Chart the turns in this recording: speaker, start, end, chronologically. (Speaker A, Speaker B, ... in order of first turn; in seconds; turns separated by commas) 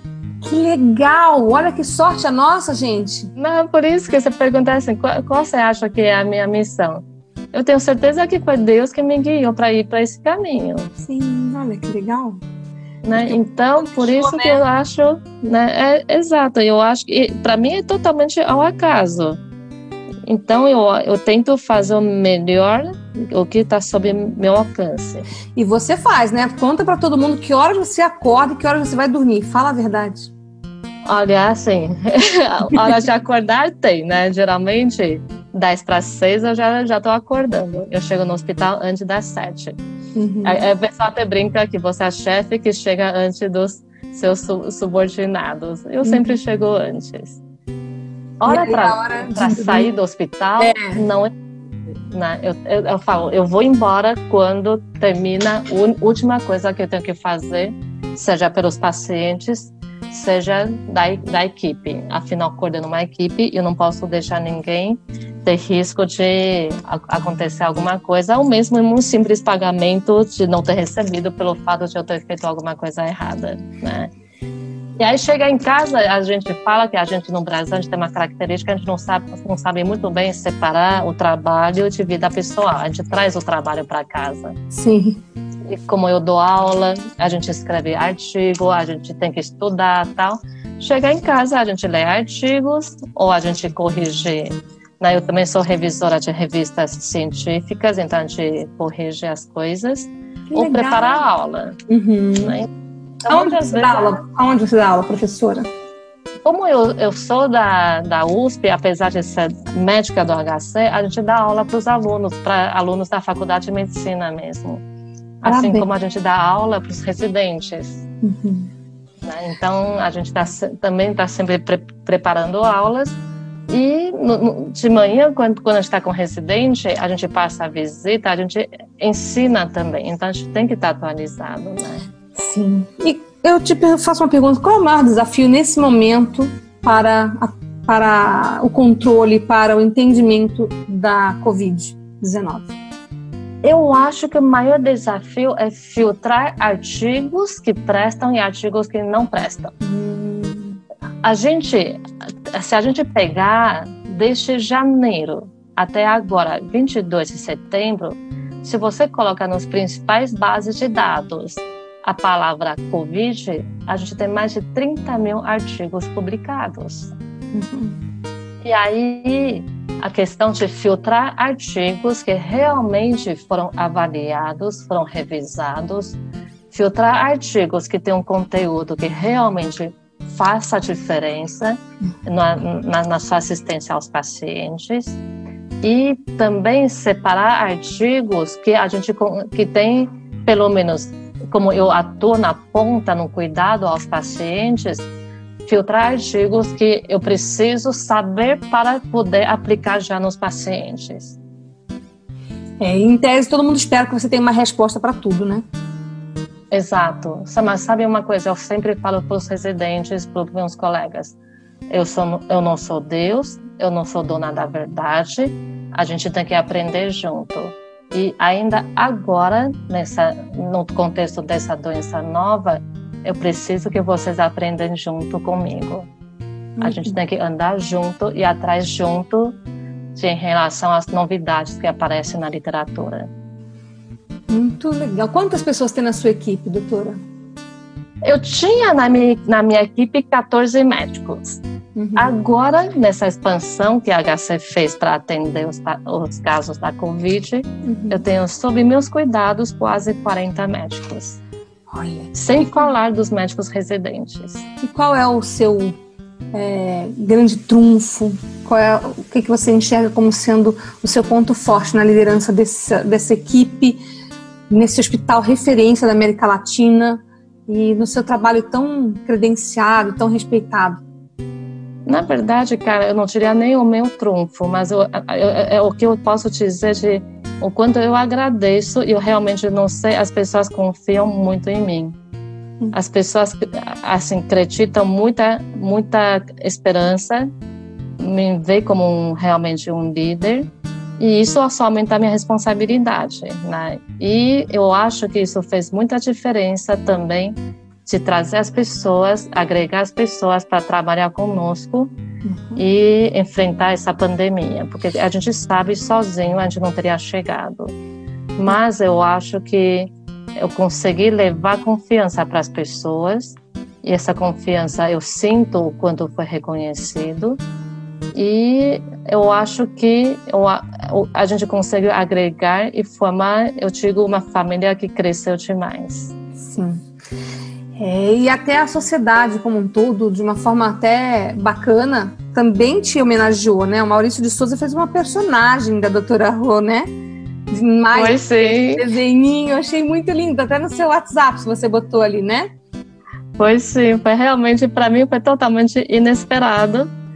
Speaker A: 0.4-3.3, Speaker B: 3.4-10.9, Speaker A: 11.0-12.4, Speaker B: 13.0-19.4, Speaker A: 13.1-13.4, Speaker A: 13.9-14.6, Speaker B: 20.2-25.2, Speaker A: 25.6-30.3, Speaker B: 31.0-39.8, Speaker A: 40.1-40.6, Speaker B: 40.4-47.4, Speaker A: 46.0-46.3, Speaker B: 48.4-51.3, Speaker A: 48.5-49.9, Speaker A: 50.6-51.0, Speaker B: 52.1-74.1, Speaker B: 75.0-84.5, Speaker A: 84.7-85.2, Speaker B: 85.7-101.8, Speaker A: 100.5-101.2, Speaker A: 101.9-102.6, Speaker B: 102.4-102.7, Speaker B: 103.2-104.2, Speaker A: 103.3-105.7, Speaker B: 106.4-114.8, Speaker B: 115.4-118.0, Speaker A: 115.5-115.9, Speaker A: 118.2-118.7, Speaker B: 119.2-132.0, Speaker A: 132.3-142.8, Speaker B: 143.6-149.7, Speaker A: 149.8-150.8, Speaker B: 151.2-167.1, Speaker A: 167.5-168.0, Speaker B: 168.6-176.2, Speaker B: 176.7-185.2, Speaker B: 185.8-195.1, Speaker B: 195.7-201.3, Speaker A: 202.8-205.6, Speaker B: 206.7-211.3, Speaker B: 211.9-226.1, Speaker A: 226.8-227.2, Speaker B: 226.8-229.6, Speaker B: 230.1-233.3, Speaker A: 234.5-237.2, Speaker B: 238.2-241.6, Speaker A: 241.9-242.3, Speaker B: 242.2-251.4, Speaker A: 247.8-248.2, Speaker A: 251.9-252.9, Speaker B: 252.3-254.6, Speaker A: 254.8-256.0, Speaker A: 256.5-264.0, Speaker A: 264.7-271.0, Speaker B: 272.1-282.1, Speaker B: 282.9-287.5, Speaker B: 288.2-290.7, Speaker B: 291.2-297.5, Speaker B: 298.1-302.1, Speaker A: 302.4-302.8, Speaker B: 302.8-307.9, Speaker B: 308.6-317.6, Speaker B: 318.3-326.3, Speaker A: 326.6-327.0, Speaker A: 327.9-337.1, Speaker A: 337.7-342.7, Speaker B: 338.1-339.1, Speaker B: 343.6-347.1